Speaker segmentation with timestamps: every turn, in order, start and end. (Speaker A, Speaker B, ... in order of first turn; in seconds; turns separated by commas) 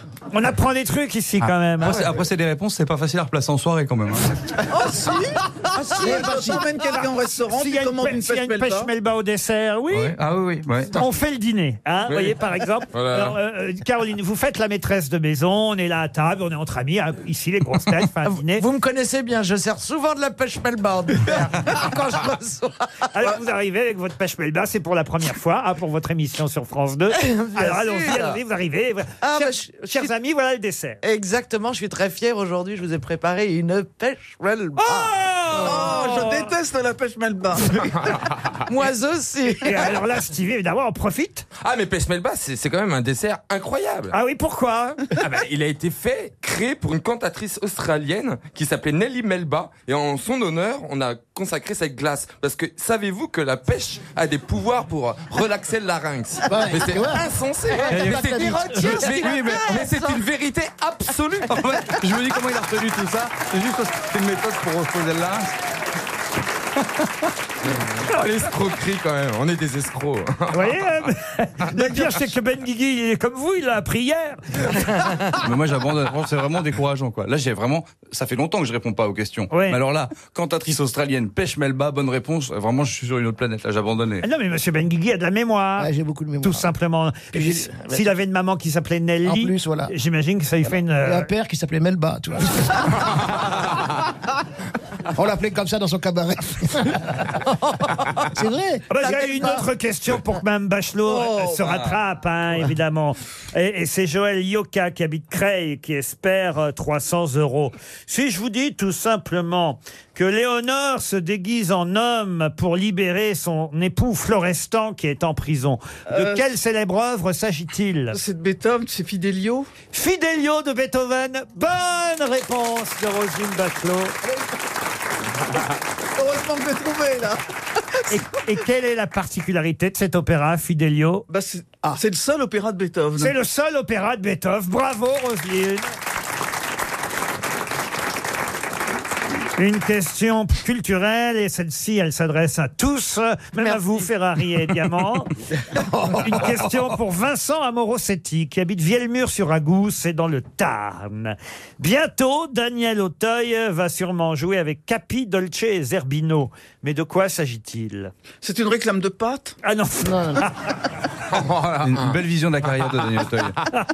Speaker A: 0.3-2.1, Speaker B: 1.8-4.3, Speaker C: 4.7-8.9, Speaker D: 5.8-6.5, Speaker E: 6.0-6.8, Speaker A: 7.4-10.2, Speaker B: 9.9-10.9, Speaker A: 10.9-18.6, Speaker F: 12.1-13.4, Speaker D: 18.3-23.1, Speaker A: 23.1-31.0, Speaker D: 27.1-28.4, Speaker D: 29.2-30.1, Speaker D: 31.0-35.1, Speaker A: 34.8-36.5, Speaker C: 35.5-38.1, Speaker F: 37.9-38.7, Speaker D: 38.7-40.0, Speaker A: 39.6-41.5, Speaker F: 41.6-44.1, Speaker A: 44.1-45.0, Speaker F: 45.2-61.7, Speaker E: 56.5-57.3, Speaker D: 57.7-60.2, Speaker B: 57.9-59.8, Speaker E: 57.9-58.8, Speaker B: 61.5-65.5, Speaker F: 67.7-70.9, Speaker A: 70.5-75.0, Speaker B: 75.3-84.2, Speaker A: 79.5-79.8, Speaker A: 84.2-91.3, Speaker E: 85.8-86.7, Speaker E: 87.3-88.1, Speaker E: 89.2-89.9, Speaker E: 91.0-93.2, Speaker E: 95.1-97.4, Speaker E: 98.3-99.6, Speaker A: 98.9-118.2, Speaker C: 99.0-99.7, Speaker C: 101.1-102.0, Speaker C: 116.1-116.5, Speaker C: 118.1-119.7, Speaker A: 119.9-124.2, Speaker C: 126.2-127.4, Speaker A: 128.1-131.2, Speaker C: 131.3-133.3, Speaker A: 133.2-135.9, Speaker A: 139.6-145.3, Speaker A: 146.1-158.1, Speaker C: 158.4-159.6, Speaker A: 159.6-160.8, Speaker E: 160.0-160.5, Speaker F: 161.3-162.2, Speaker B: 161.8-163.6